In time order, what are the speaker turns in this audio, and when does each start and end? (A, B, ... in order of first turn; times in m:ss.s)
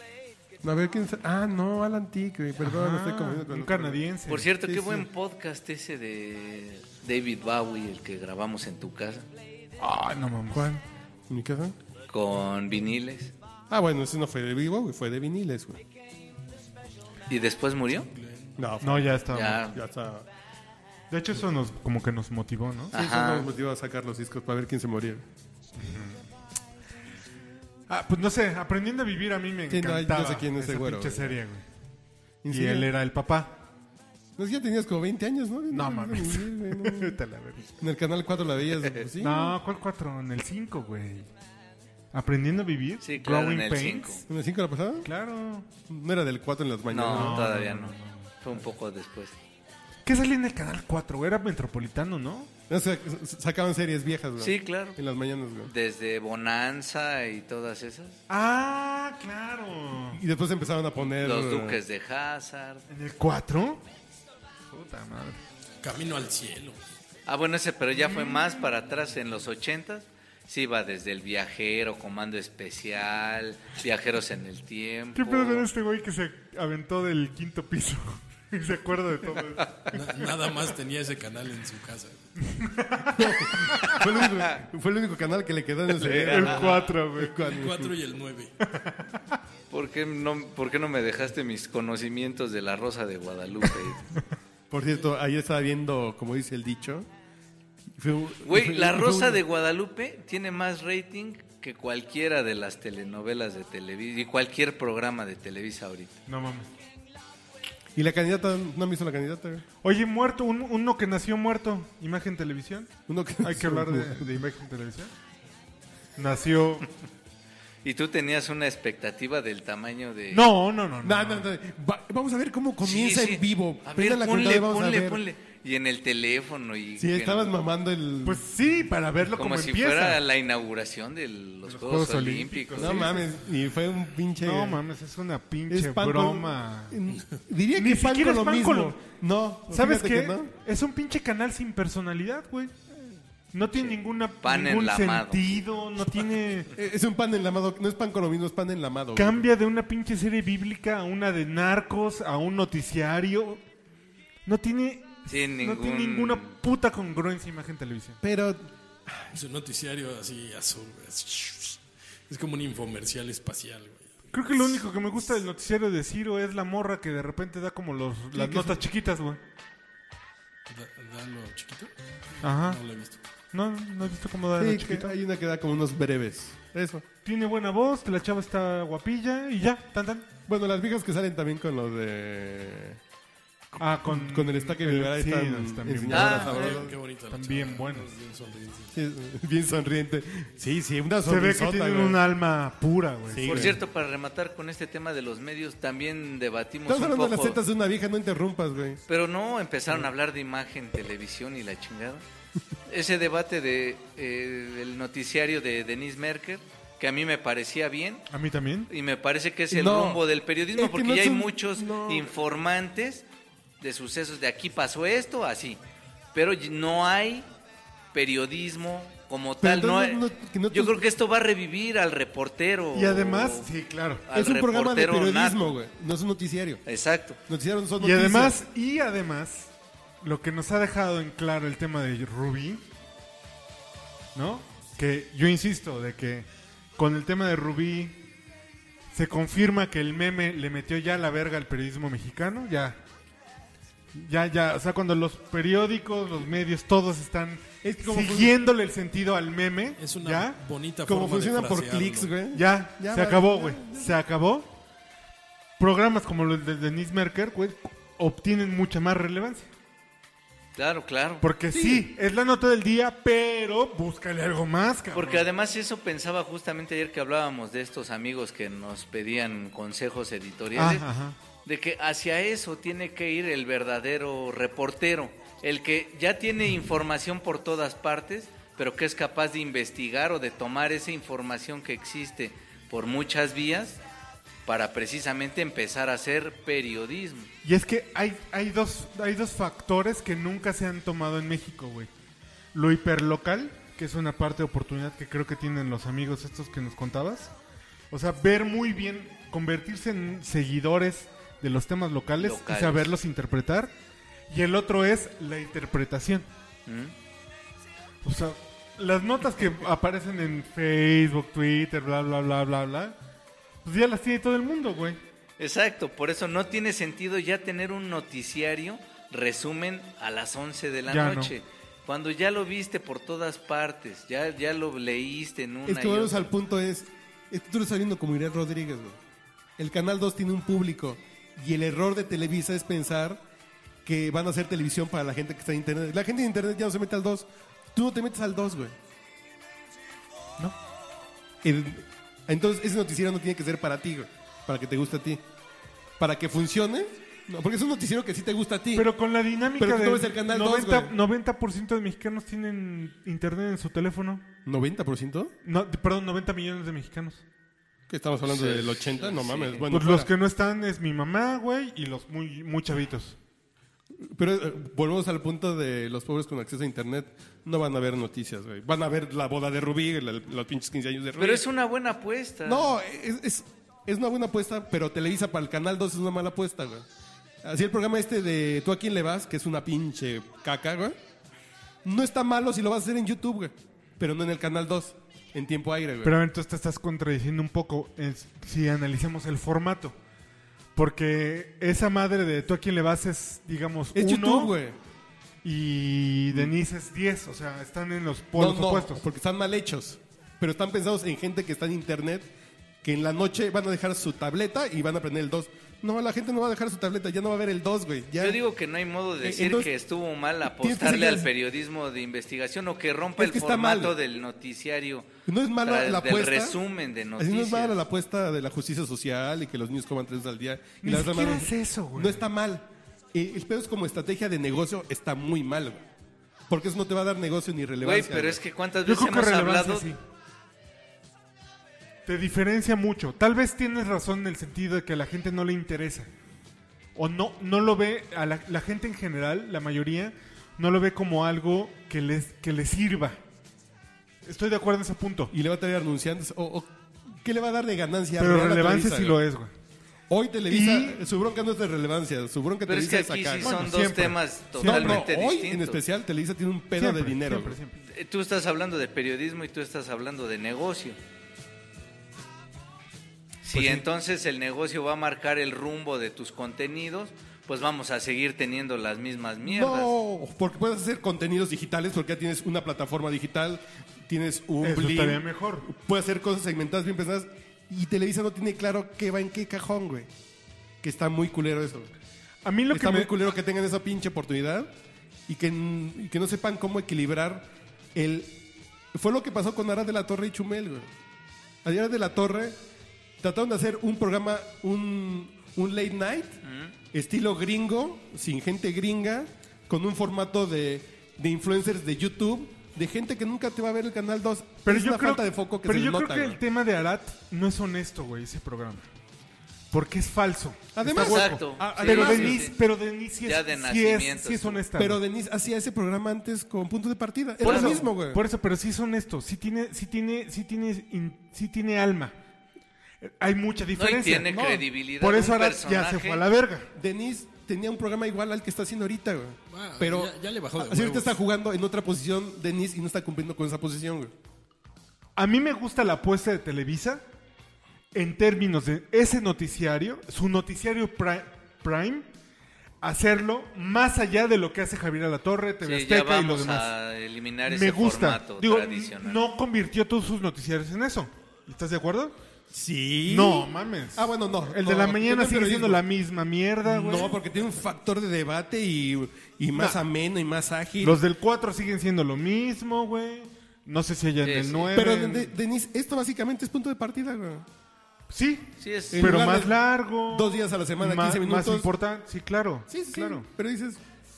0:00.6-0:04.0 A
0:02.6-0:04.5 B
0:04.3-0:09.2 C
0:04.6-0:05.0 A
0:09.8-0:10.8 B
0:10.5-0:10.8 A
0:11.3-0:11.8 A
0:12.1-0:13.3 C
0:13.7-0:15.8 A
0:17.3-0:18.1 C
0:18.1-0:18.6 D
0:18.6-0:20.3 A
0:18.8-0:19.6 B
0:19.3-0:19.8 C
0:21.1-0:22.9 B
0:22.9-0:23.5 C
0:22.9-0:25.2 A
0:25.8-0:26.2 B
0:27.9-0:31.6 B
0:29.7-0:31.4 A
0:32.4-0:32.9 A
0:32.5-0:33.6 B
0:34.4-0:37.2 A
0:35.7-0:37.6 B
0:37.8-0:39.6 A
0:39.2-0:41.3 B
0:42.1-0:44.2 B
0:43.0-0:44.2 C
0:44.3-0:45.1 A
0:45.0-0:45.7 B
0:45.8-0:47.5 A
0:46.9-0:49.3 C
0:47.0-0:48.3 B
0:50.0-0:52.5 B
0:52.7-0:55.7 A
0:54.4-0:55.0 C
0:55.6-0:58.2 C
0:58.3-1:00.2 B
1:00.1-1:01.8 A
1:01.2-1:02.8 C
1:02.9-1:03.8 B
1:04.7-1:05.4 B
1:05.8-1:06.8 D
1:07.3-1:15.7 C
1:07.9-1:08.7 B
1:15.2-1:20.3 B
1:19.9-1:22.3 D
1:22.5-1:24.0 B
1:23.1-1:27.9 A
1:25.9-1:26.6 C
1:26.2-1:27.4 B
1:27.2-1:28.5 D
1:28.7-1:29.4 B
1:29.7-1:34.0 C
1:34.7-1:37.1 A
1:37.9-1:39.4 A
1:38.4-1:46.1 C
1:46.3-1:46.7 B
1:47.9-1:49.6 A
1:49.8-1:55.1 B
1:53.1-1:54.4 A
1:56.2-1:56.9 B
1:57.8-2:00.5 C
2:00.3-2:01.4 B
2:01.0-2:05.2 A
2:02.8-2:07.5 C
2:07.0-2:08.4 A
2:08.2-2:10.2 B
2:09.4-2:13.2 C
2:11.6-2:13.3 B
2:12.8-2:14.8 A
2:14.4-2:17.0 B
2:15.7-2:20.5 A
2:17.7-2:19.0 B
2:19.7-2:22.8 B
2:23.5-2:26.7 B
2:24.4-2:25.6 C
2:26.7-2:29.4 A
2:29.2-2:33.6 B
2:34.4-2:38.2 B
2:35.3-2:36.5 C
2:38.2-2:39.3 A
2:39.3-2:44.3 D
2:44.3-2:49.4 B
2:48.3-2:48.8 A
2:50.7-2:51.9 D
2:52.4-2:52.8 B
2:52.5-2:53.2 D
2:53.5-2:55.1 B
2:54.5-2:57.0 A
2:57.2-3:00.3 B
3:00.5-3:03.0 A
3:03.7-3:07.0 A
3:03.8-3:08.1 B
3:06.1-3:06.8 C
3:06.5-3:08.9 D
3:08.9-3:12.2 A
3:11.2-3:13.8 B
3:13.3-3:13.8 A
3:13.4-3:17.6 C
3:16.9-3:19.0 A
3:19.1-3:22.2 C
3:22.9-3:28.2 C
3:28.3-3:28.9 B
3:28.9-3:33.2 C
3:29.7-3:32.3 A
3:33.8-3:35.8 C
3:36.3-3:37.5 C
3:38.1-3:43.7 C
3:39.6-3:41.0 A
3:42.9-3:44.2 B
3:44.3-3:45.8 C
3:44.3-3:46.8 A
3:46.8-3:47.4 C
3:47.4-3:48.6 A
3:48.0-3:52.8 B
3:54.3-3:58.2 B
3:59.1-4:03.0 B
4:04.1-4:10.6 B
4:07.8-4:08.5 A
4:10.0-4:12.3 D
4:11.0-4:14.2 A
4:12.5-4:14.7 B
4:15.8-4:19.7 B
4:20.8-4:21.4 C
4:21.4-4:25.5 B
4:21.7-4:22.1 A
4:25.1-4:31.0 C
4:30.7-4:31.4 B
4:31.6-4:44.0 C
4:44.6-4:47.5 C
4:47.6-4:52.1 B
4:52.7-4:57.5 B
4:58.1-5:03.9 B
5:02.4-5:03.1 C
5:04.5-5:06.5 B
5:06.9-5:07.1 C
5:08.2-5:13.2 B
5:13.8-5:15.2 B
5:15.6-5:26.5 C
5:21.1-5:21.5 B
5:25.8-5:29.2 A
5:29.8-5:33.4 A
5:34.0-5:39.0 A
5:41.6-5:45.4 A
5:46.2-5:49.1 A
5:48.9-5:54.4 B
5:49.8-5:51.2 A
5:54.6-5:55.5 A
5:55.6-5:57.4 B
5:58.1-6:00.3 A
5:58.5-5:59.9 C
5:59.9-6:03.4 B
6:04.2-6:11.6 A
6:11.4-6:12.9 C
6:12.6-6:17.1 A
6:17.6-6:21.2 A
6:22.0-6:26.4 A
6:26.2-6:30.2 B
6:30.9-6:34.7 B
6:34.1-6:35.0 A
6:35.6-6:39.2 B
6:38.5-6:42.5 A
6:43.0-6:48.6 A
6:48.4-6:55.3 C
6:49.4-6:49.9 A
6:50.6-6:51.5 A
6:53.4-6:54.2 A
6:55.4-6:56.8 A
6:55.8-6:58.0 C
6:57.4-7:06.0 A
7:01.0-7:02.4 B
7:06.7-7:08.6 A
7:08.0-7:10.1 C
7:09.0-7:10.2 B
7:12.2-7:16.3 B
7:17.2-7:23.4 B
7:24.4-7:25.5 B
7:25.5-7:29.4 A
7:28.4-7:29.7 B
7:30.3-7:34.0 A
7:30.7-7:31.2 B
7:32.8-7:36.0 C
7:33.6-7:35.2 B
7:34.8-7:37.8 A
7:37.0-7:38.0 B
7:38.0-7:41.2 C
7:43.6-7:50.1 C
7:43.7-7:44.0 B
7:49.6-8:00.3 A
7:54.8-7:55.9 B
8:01.0-8:02.1 A
8:02.6-8:03.3 B
8:02.9-8:04.9 A
8:05.5-8:08.6 A
8:09.1-8:11.1 A
8:11.8-8:12.8 A
8:13.4-8:16.6 A
8:16.6-8:16.9 C
8:17.1-8:26.6 A
8:24.8-8:29.1 B
8:29.9-8:35.2 B
8:30.9-8:32.7 A
8:31.1-8:32.7 C
8:33.4-8:34.8 C
8:35.0-8:38.4 A
8:37.6-8:42.3 B
8:37.6-8:38.0 C
8:43.2-8:46.9 B
8:44.0-8:46.4 C
8:46.9-8:54.3 A
8:49.7-8:51.4 D
8:55.4-8:57.2 B
8:58.1-9:02.3 B
9:03.0-9:06.9 B
9:05.8-9:09.4 C
9:07.6-9:12.3 B
9:12.7-9:16.0 A
9:13.2-9:17.4 B
9:16.8-9:21.2 A
9:19.7-9:20.0 B
9:21.0-9:25.5 B
9:24.4-9:24.9 C
9:24.9-9:27.6 A
9:28.3-9:33.4 B
9:28.8-9:29.5 C
9:29.1-9:31.9 A
9:32.9-9:34.0 A